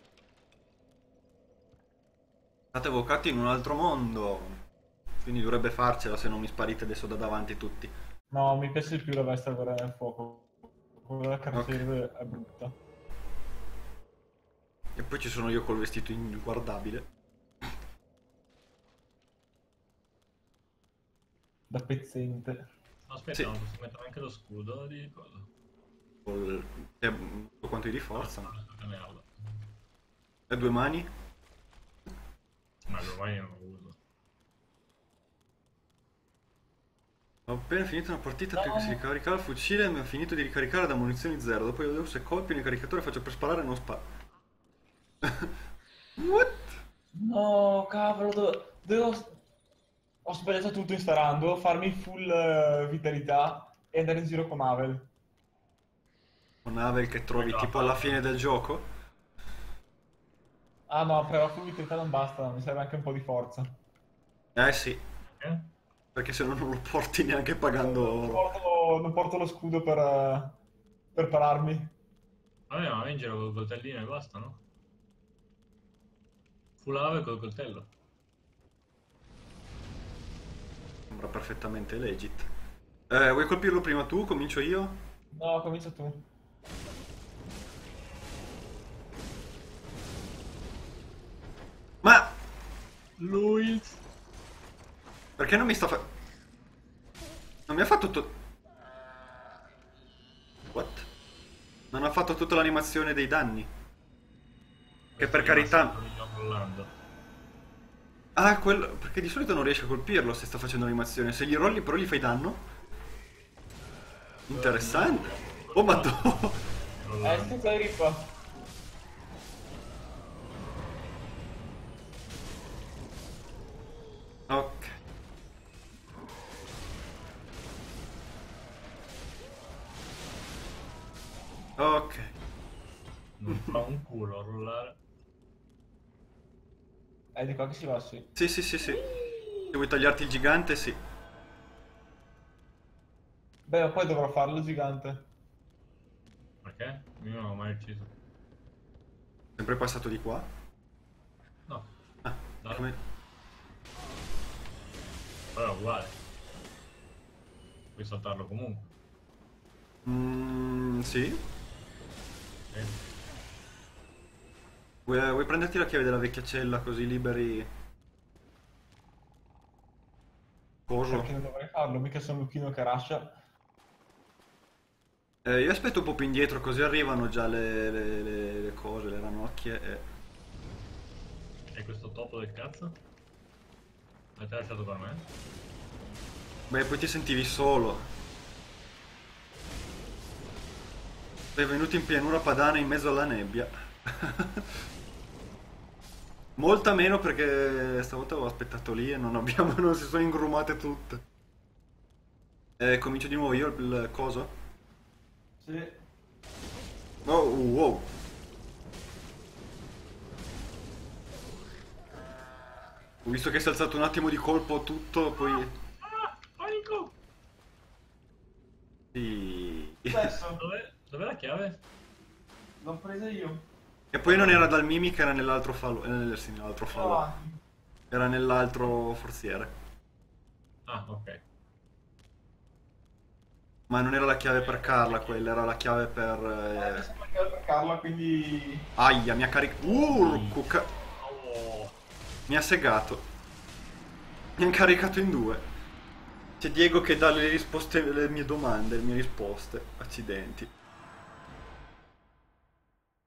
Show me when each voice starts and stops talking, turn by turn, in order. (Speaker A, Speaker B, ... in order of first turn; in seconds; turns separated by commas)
Speaker A: 2.7-4.6, Speaker A: 5.2-7.9, Speaker B: 8.3-12.8, Speaker A: 11.5-11.8, Speaker A: 14.9-17.1, Speaker B: 21.7-22.7, Speaker C: 23.1-25.5, Speaker A: 26.2-28.5, Speaker C: 28.1-29.3, Speaker A: 30.5-31.1, Speaker C: 32.9-34.0, Speaker A: 37.5-44.0, Speaker B: 38.5-39.0, Speaker A: 45.2-45.5, Speaker A: 46.2-46.8, Speaker B: 47.1-49.4, Speaker B: 50.2-55.1, Speaker A: 56.6-58.9, Speaker C: 57.3-58.2, Speaker B: 60.9-63.8, Speaker A: 64.5-65.0, Speaker C: 65.3-65.7, Speaker A: 66.1-68.5, Speaker B: 67.8-70.6, Speaker B: 71.1-71.9, Speaker C: 72.7-74.6, Speaker C: 76.8-77.9, Speaker A: 81.1-82.5, Speaker A: 83.1-85.0, Speaker B: 85.3-86.3, Speaker A: 92.0-92.3, Speaker C: 93.2-94.0, Speaker A: 95.4-96.1, Speaker A: 97.7-98.3, Speaker A: 100.7-101.1, Speaker A: 101.9-103.7, Speaker C: 105.1-106.9, Speaker A: 105.2-105.9, Speaker A: 108.3-112.6, Speaker A: 114.5-116.5, Speaker C: 114.5-117.6, Speaker B: 117.2-118.3, Speaker A: 124.5-125.0, Speaker A: 131.8-132.3, Speaker C: 133.4-135.0, Speaker A: 133.5-133.8, Speaker B: 137.3-138.3, Speaker A: 138.3-139.1, Speaker A: 139.7-141.0, Speaker B: 143.7-145.3, Speaker C: 146.6-148.1, Speaker A: 149.6-150.5, Speaker A: 152.2-153.0, Speaker C: 152.6-152.9, Speaker C: 155.5-156.2, Speaker C: 157.9-158.9, Speaker A: 160.0-161.4, Speaker C: 162.7-163.0, Speaker A: 165.1-167.7, Speaker A: 170.9-171.3, Speaker B: 171.1-173.4, Speaker A: 175.4-180.1, Speaker C: 181.7-183.0, Speaker C: 184.3-185.3, Speaker A: 186.7-188.1, Speaker A: 191.5-194.7, Speaker A: 196.6-201.2, Speaker A: 202.8-204.5, Speaker B: 205.6-206.0, Speaker A: 207.2-208.1, Speaker A: 213.2-215.7, Speaker C: 216.0-217.1, Speaker A: 219.1-220.3, Speaker B: 220.1-220.6, Speaker C: 220.6-221.8, Speaker B: 222.8-223.7, Speaker A: 224.1-227.2, Speaker C: 224.2-224.7, Speaker B: 226.9-227.5, Speaker A: 228.1-229.7, Speaker C: 230.9-231.4, Speaker A: 233.9-237.1, Speaker C: 234.6-235.4, Speaker B: 236.7-238.9, Speaker A: 239.0-240.9, Speaker C: 239.8-241.9, Speaker A: 242.5-243.2, Speaker A: 244.6-245.7, Speaker A: 246.6-250.7